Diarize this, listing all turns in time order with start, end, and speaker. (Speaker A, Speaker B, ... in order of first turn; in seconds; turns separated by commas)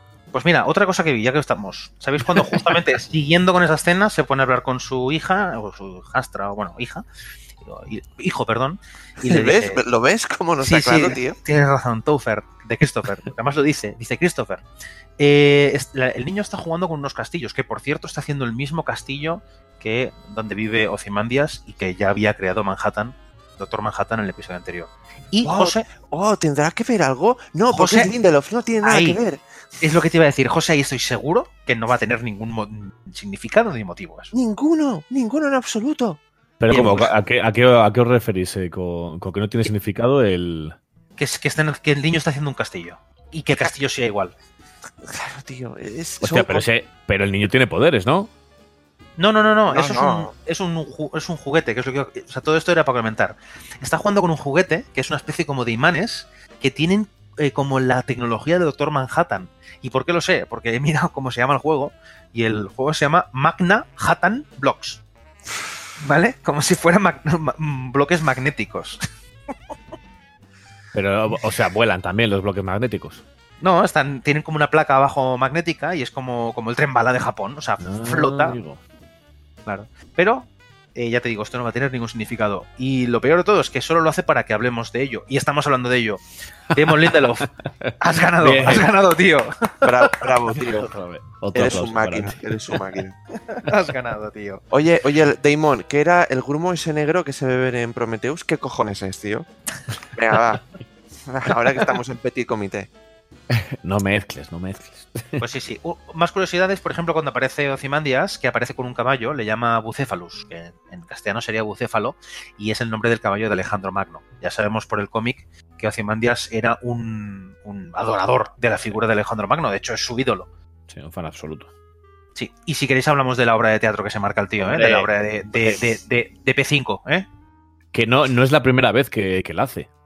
Speaker A: 0.3-7.0, Speaker A: 7.6-9.8, Speaker B: 9.2-11.4, Speaker A: 10.6-14.6, Speaker A: 15.2-25.9, Speaker B: 25.4-29.4, Speaker A: 27.7-28.1, Speaker A: 28.8-29.2, Speaker A: 29.8-34.3, Speaker B: 34.3-36.2, Speaker C: 36.6-40.8, Speaker A: 36.7-37.1, Speaker A: 41.2-44.3, Speaker B: 45.0-46.6, Speaker C: 46.2-48.3, Speaker A: 49.2-65.0, Speaker B: 49.7-50.3, Speaker A: 66.0-69.0, Speaker C: 70.9-73.2, Speaker A: 73.6-78.6, Speaker C: 77.8-78.8, Speaker A: 79.7-87.5, Speaker C: 87.8-88.9, Speaker A: 88.0-89.9, Speaker B: 89.8-90.9, Speaker C: 90.5-92.8, Speaker B: 91.5-93.2, Speaker A: 93.5-94.6, Speaker B: 94.7-99.5, Speaker B: 100.1-100.6, Speaker B: 101.2-102.9, Speaker C: 103.5-105.4, Speaker A: 105.4-120.5, Speaker C: 120.9-121.7, Speaker A: 122.3-127.2, Speaker C: 124.6-125.8, Speaker C: 127.9-129.9